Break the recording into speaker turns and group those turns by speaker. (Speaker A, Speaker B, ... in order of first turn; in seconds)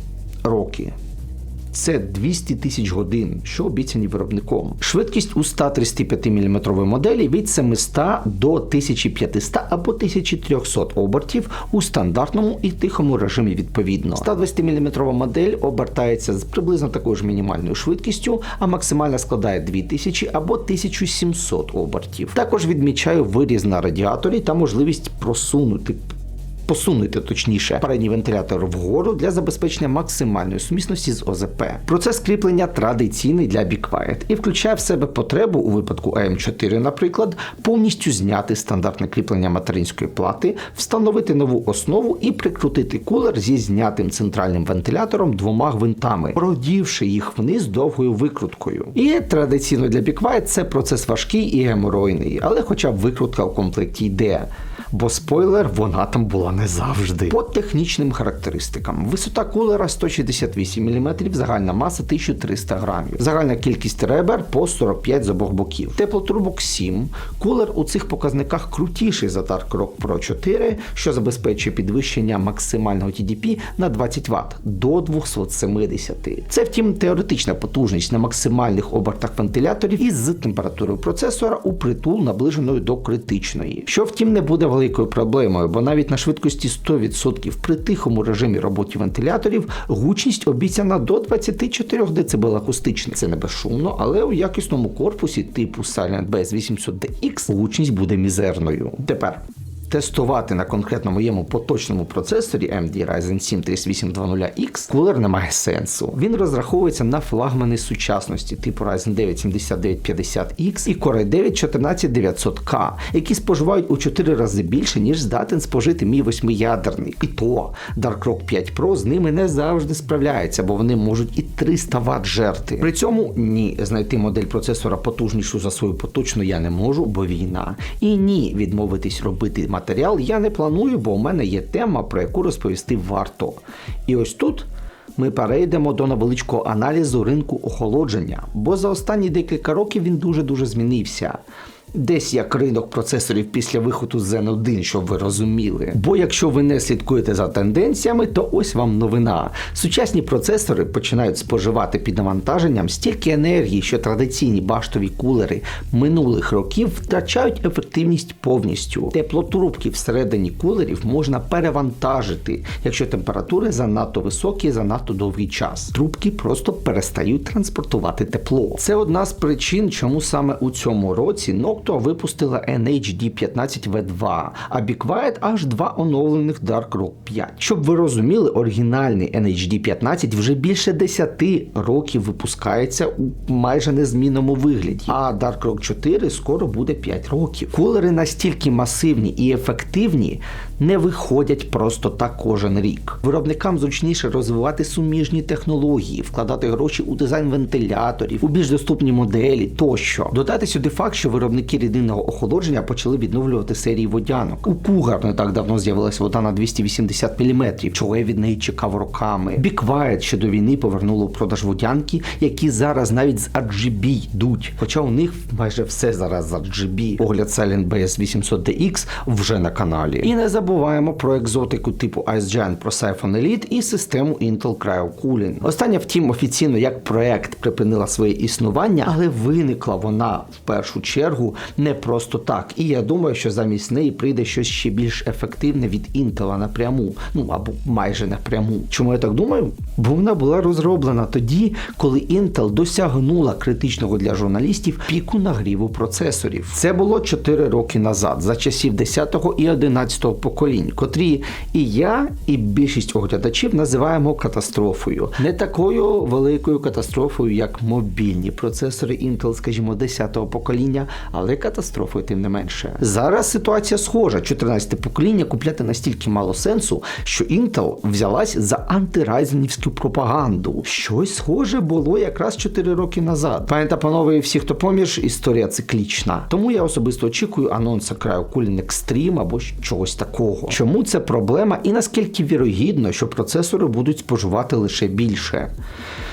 Speaker A: 0.4-0.9, 1.7-26.0, 26.7-141.4, 141.9-285.7